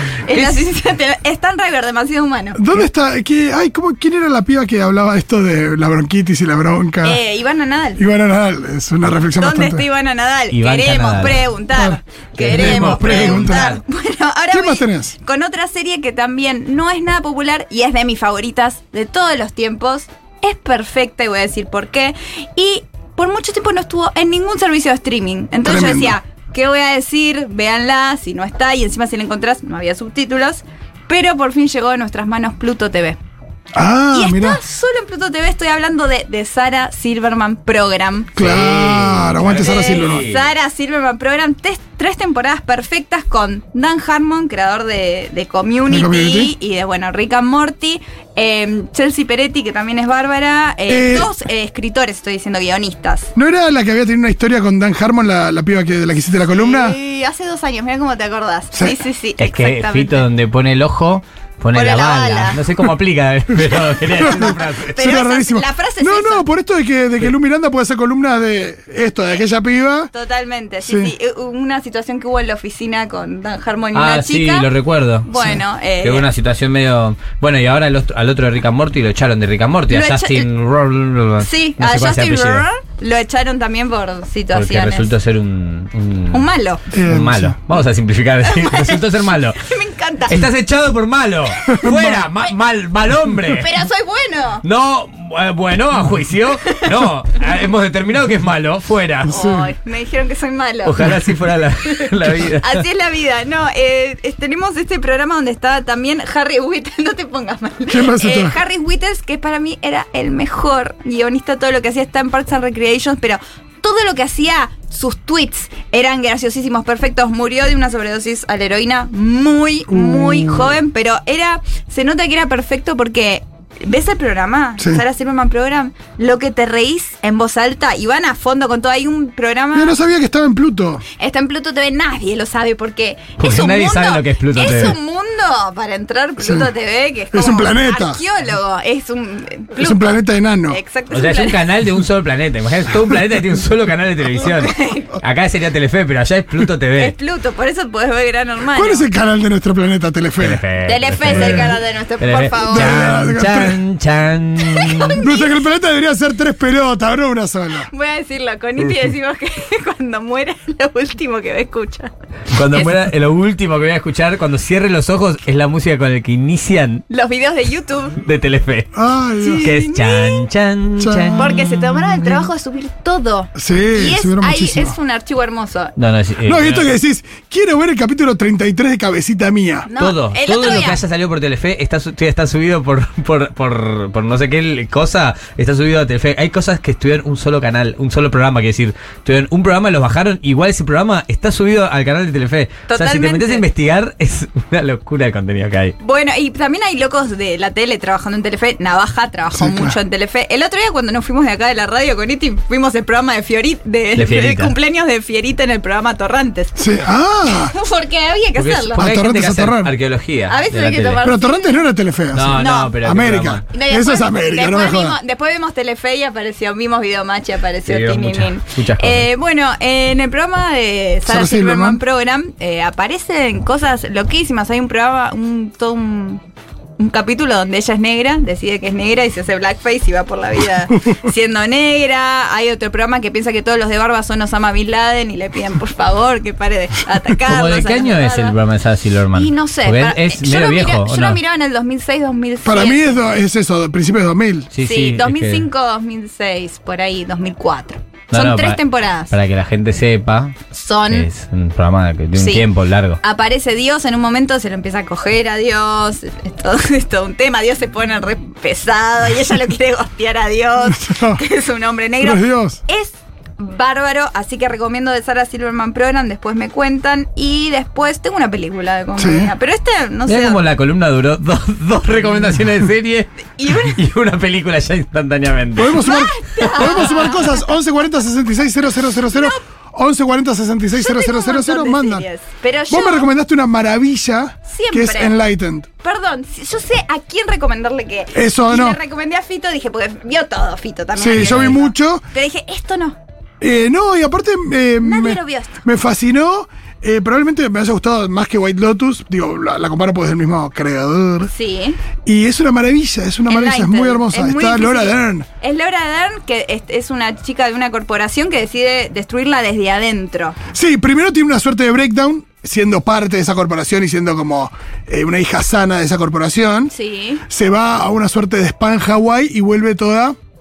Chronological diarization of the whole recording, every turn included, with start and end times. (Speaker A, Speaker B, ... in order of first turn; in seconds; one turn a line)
Speaker A: 0.2-2.6
Speaker B: 0.3-0.7
Speaker C: 2.5-7.2
Speaker A: 7.0-8.0
Speaker C: 8.0-9.8
Speaker A: 9.3-33.2
Speaker B: 10.5-11.5
Speaker C: 11.7-13.8
Speaker B: 12.3-13.8
Speaker C: 14.5-15.2
Speaker C: 25.6-26.1
Speaker C: 33.7-34.6
Speaker A: 34.1-38.5
Speaker C: 38.4-40.3
Speaker B: 38.4-40.5
Speaker A: 39.5-53.3
Speaker C: 45.9-46.5
Speaker C: 50.9-51.3
Speaker C: 53.4-57.0
Speaker A: 56.5-60.2
Speaker C: 58.7-59.0
Speaker B: 59.4-65.0
Speaker A: 61.7-62.6
Speaker A: 64.0-66.4
Speaker C: 64.2-70.1
Speaker A: 70.1-74.7
Speaker C: 70.8-71.1
Speaker B: 73.9-75.3
Speaker A: 75.2-76.3
Speaker C: 75.3-75.6
Speaker B: 76.0-82.7
Speaker A: 79.9-80.5
Speaker A: 81.4-85.1
Speaker B: 84.5-89.6
Speaker A: 86.3-86.8
Speaker C: 86.9-87.6
Speaker A: 88.4-90.5
Speaker B: 90.3-93.7
Speaker A: 91.6-91.9
Speaker C: 91.7-92.3
Speaker A: 93.5-94.6
Speaker B: 94.6-99.4
Speaker A: 96.5-97.0
Speaker C: 99.2-99.7
Speaker A: 99.3-101.2
Speaker B: 100.8-102.8
Speaker A: 101.8-130.0
Speaker C: 107.9-108.6
Speaker C: 119.9-120.8
Speaker C: 129.7-131.0
Speaker A: 131.2-140.1
Speaker B: 133.4-135.0
Speaker C: 136.4-136.7
Speaker C: 137.3-138.2
Speaker C: 139.7-140.8
Speaker A: 140.7-141.6
Speaker B: 141.1-147.1
Speaker A: 144.6-145.2
Speaker A: 147.0-149.1
Speaker C: 148.7-150.6
Speaker B: 150.4-155.2
Speaker A: 150.8-153.1
Speaker C: 151.3-151.7
Speaker C: 152.7-153.8
Speaker A: 154.7-155.6
Speaker C: 155.1-157.9
Speaker A: 157.8-162.1
Speaker B: 162.5-167.0
Speaker A: 162.7-163.0
Speaker A: 167.1-168.2
Speaker B: 168.2-168.9
Speaker C: 168.9-169.8
Speaker A: 169.4-170.4
Speaker B: 169.6-171.6
Speaker C: 171.0-171.5
Speaker A: 171.3-175.9
Speaker C: 173.5-174.9
Speaker B: 175.9-176.9
Speaker C: 176.4-179.9
Speaker A: 179.8-181.0
Speaker B: 180.0-195.9
Speaker A: 192.9-193.6
Speaker A: 196.0-206.8
Speaker C: 199.5-199.9
Speaker B: 204.2-204.7
Speaker C: 206.8-207.7
Speaker A: 207.4-209.1
Speaker B: 208.5-211.3
Speaker C: 209.0-209.9
Speaker A: 210.5-211.8
Speaker C: 211.2-215.2
Speaker B: 212.3-213.6
Speaker A: 212.5-213.0
Speaker A: 213.7-226.4
Speaker B: 217.8-219.3
Speaker C: 221.2-222.0
Speaker A: 227.0-238.6
Speaker B: 237.4-241.4
Speaker A: 239.3-243.3
Speaker C: 242.6-244.7
Speaker B: 244.7-245.7
Speaker A: 244.8-249.3
Speaker B: 248.3-250.6
Speaker A: 250.7-251.3
Speaker B: 251.1-253.2
Speaker A: 252.3-252.7
Speaker A: 253.2-270.6
Speaker C: 260.8-261.4
Speaker C: 262.2-262.8
Speaker C: 269.2-269.5
Speaker B: 270.2-276.1
Speaker A: 273.5-274.0
Speaker C: 275.8-282.2
Speaker A: 275.9-277.7
Speaker A: 279.2-279.6
Speaker A: 280.9-283.3
Speaker C: 282.9-285.9
Speaker A: 284.7-285.4
Speaker A: 286.0-293.2
Speaker C: 288.3-289.0
Speaker C: 291.1-292.2
Speaker B: 291.3-291.8
Speaker C: 293.6-301.5
Speaker A: 295.0-295.8
Speaker A: 301.4-302.0
Speaker C: 302.2-305.4
Speaker A: 303.5-310.6
Speaker C: 310.7-316.9
Speaker A: 316.9-317.4
Speaker C: 317.5-320.3